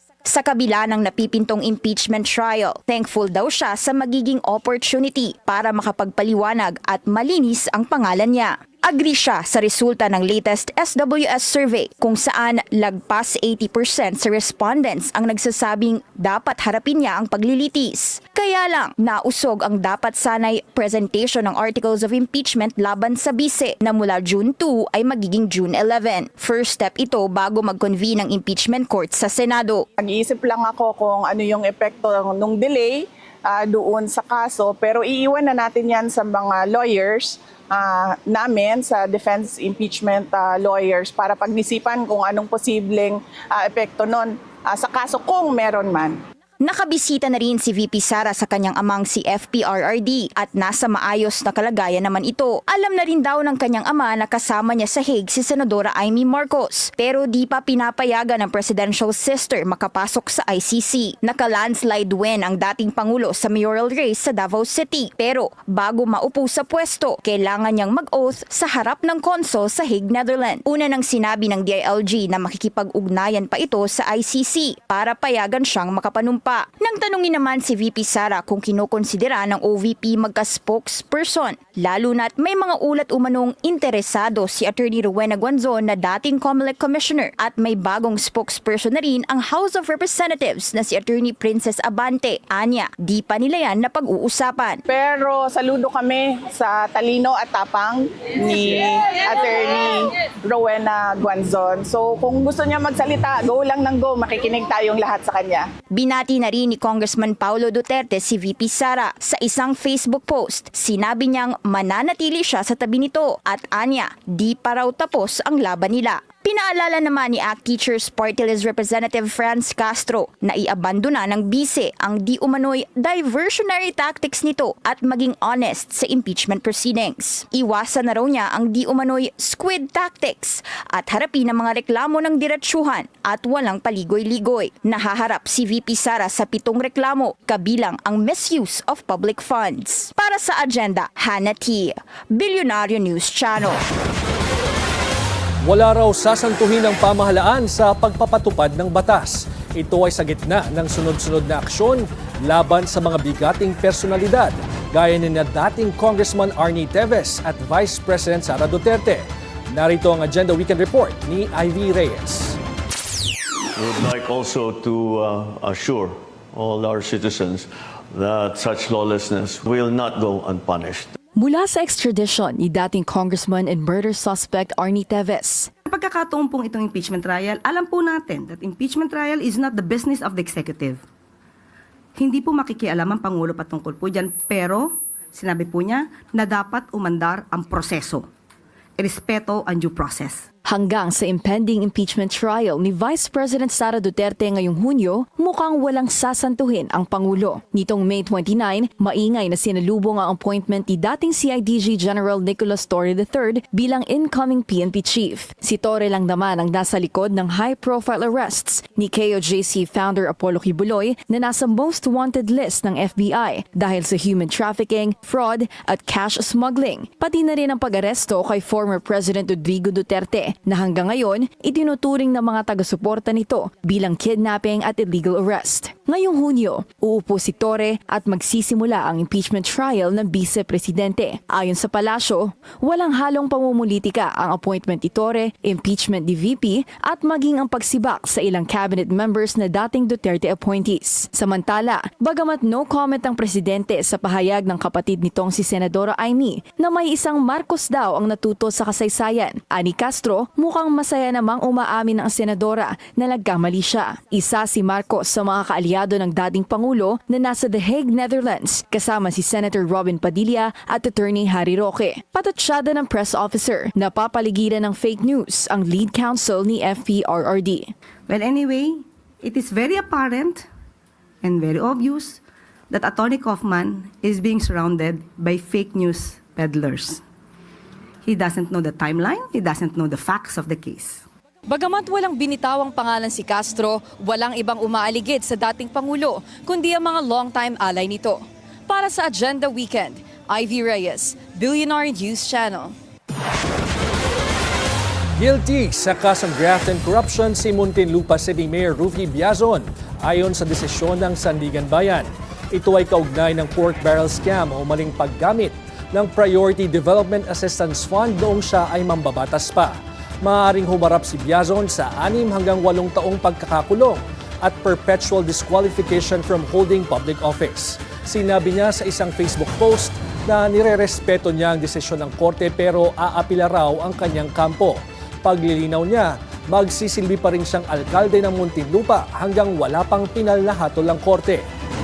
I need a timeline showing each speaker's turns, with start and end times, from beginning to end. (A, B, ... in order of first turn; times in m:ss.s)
0:00.3-0:29.8 A
0:30.0-0:46.2 B
0:46.6-1:34.8 A
1:34.9-1:45.7 B
1:46.0-2:23.8 A
2:25.6-2:42.6 C
2:43.8-2:51.2 D
2:51.4-2:55.7 E
2:55.9-3:01.0 F
3:02.2-3:08.3 F
3:09.0-3:10.5 F
3:10.6-4:27.9 E
4:28.3-4:30.7 F
4:31.4-4:37.2 F
4:38.2-4:41.3 F
4:41.7-4:53.0 E
4:55.4-5:31.7 C